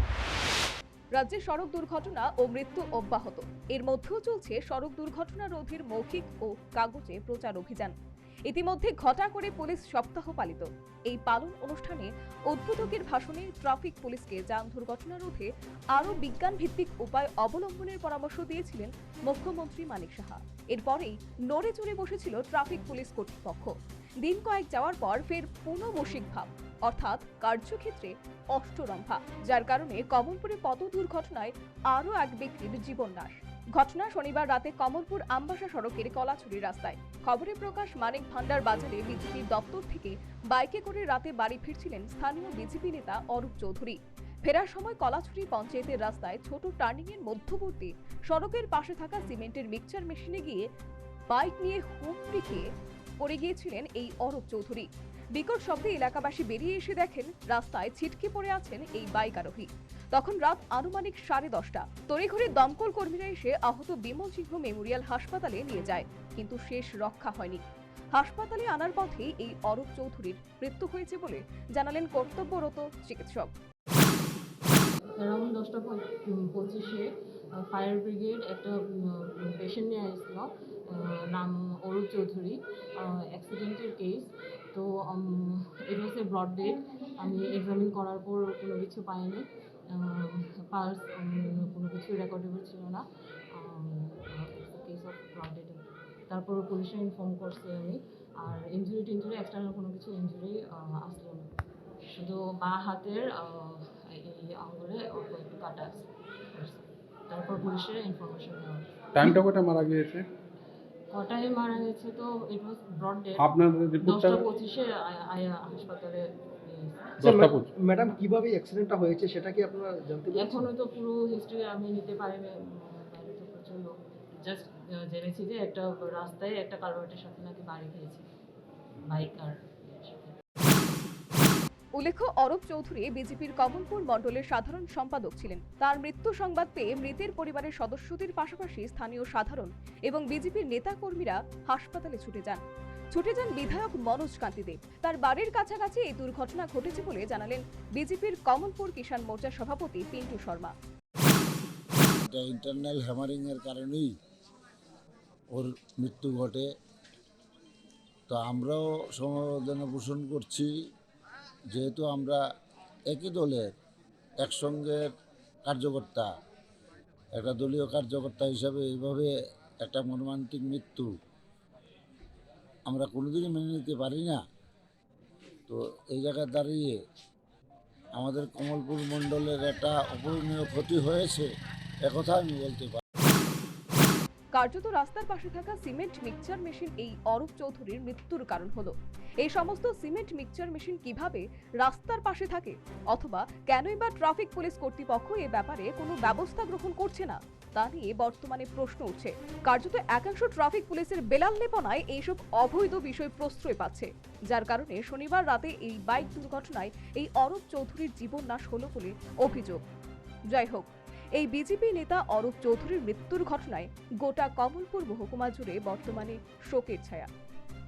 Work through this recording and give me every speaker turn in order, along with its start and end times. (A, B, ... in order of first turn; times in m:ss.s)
0:01.1-0:08.0 A
0:08.5-0:50.6 A
0:51.3-0:52.7 A
0:53.2-1:07.6 A
1:08.1-1:13.5 A
1:15.2-1:41.5 B
1:42.1-1:49.2 B
1:49.2-1:50.2 C
1:51.1-1:57.2 B
1:53.4-1:54.5 C
1:57.2-1:57.7 C
1:57.2-2:00.7 D
2:00.3-2:08.3 B
2:09.1-2:10.4 B
2:12.0-2:22.6 A
2:23.1-2:30.7 A
2:32.2-2:34.1 E
2:35.5-2:36.7 E
2:38.3-2:40.7 E
2:41.7-2:42.4 E
2:43.1-2:43.7 E
2:44.4-2:45.0 E
2:45.6-2:46.3 E
2:47.4-2:51.1 E
2:52.9-2:54.4 E
2:55.7-2:57.0 E
2:58.2-3:01.5 E
3:02.1-3:03.0 E
3:04.5-3:29.8 A
3:30.5-3:37.3 A